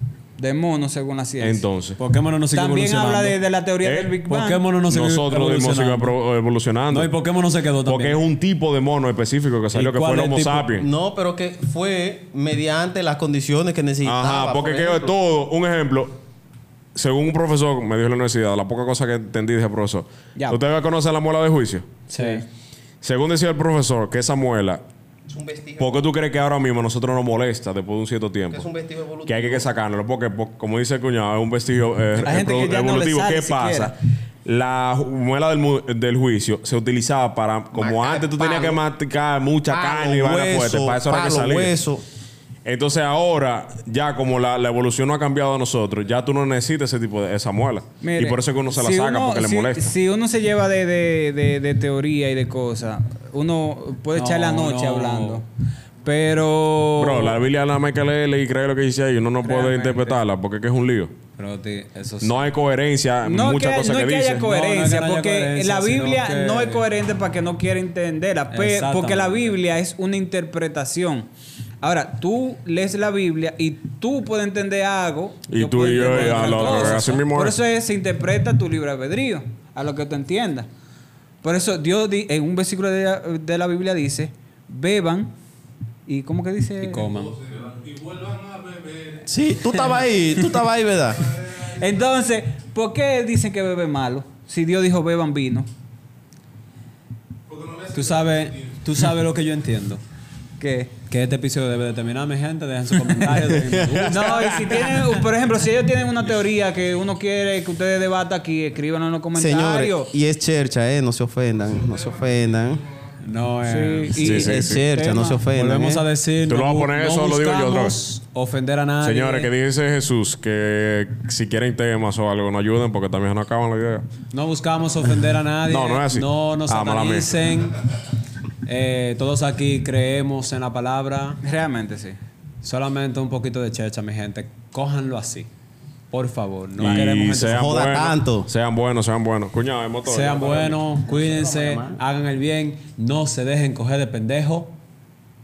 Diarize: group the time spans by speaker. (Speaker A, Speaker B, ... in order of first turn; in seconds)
Speaker A: 0.4-1.6, 2.5-4.6, 22.2-22.4, 32.2-33.9, 48.0-55.4, 56.0-57.4, 59.4-60.1, 63.2-71.3, 71.8-80.7, 81.4-85.3, 86.1-87.2, 91.5-95.7, 100.6-100.9, 104.0-110.1, 113.6-115.4, 131.4-132.2
Speaker B: 1.4-2.0, 3.8-4.1, 4.9-7.1, 7.8-10.9, 14.0-16.1, 16.9-21.9, 23.0-24.8, 25.8-28.7, 29.2-41.7, 42.6-49.9, 57.0-61.1, 62.2-64.4, 75.5-77.5, 103.6-105.0, 114.2-114.8, 116.5-118.0, 119.0-124.1, 125.7-127.3, 136.8-140.8
Speaker C: 2.0-3.4, 4.2-6.1, 6.9-8.2, 9.7-10.7, 22.1-22.4, 54.1-55.4, 59.5-60.2, 61.4-62.5, 64.4-66.8, 68.5-69.6, 76.0-77.2, 86.8-87.4, 97.8-100.0, 101.1-104.6, 113.2-114.5, 115.5-119.5, 124.3-127.8, 128.7-131.4, 132.6-135.5, 136.1-137.7, 140.0-144.7
Speaker D: 10.7-15.1, 25.3-26.1, 28.5-29.7, 37.7-38.8, 39.7-42.0, 89.2-91.3, 109.3-112.8, 114.2-116.0, 136.9-138.5, 141.1-142.0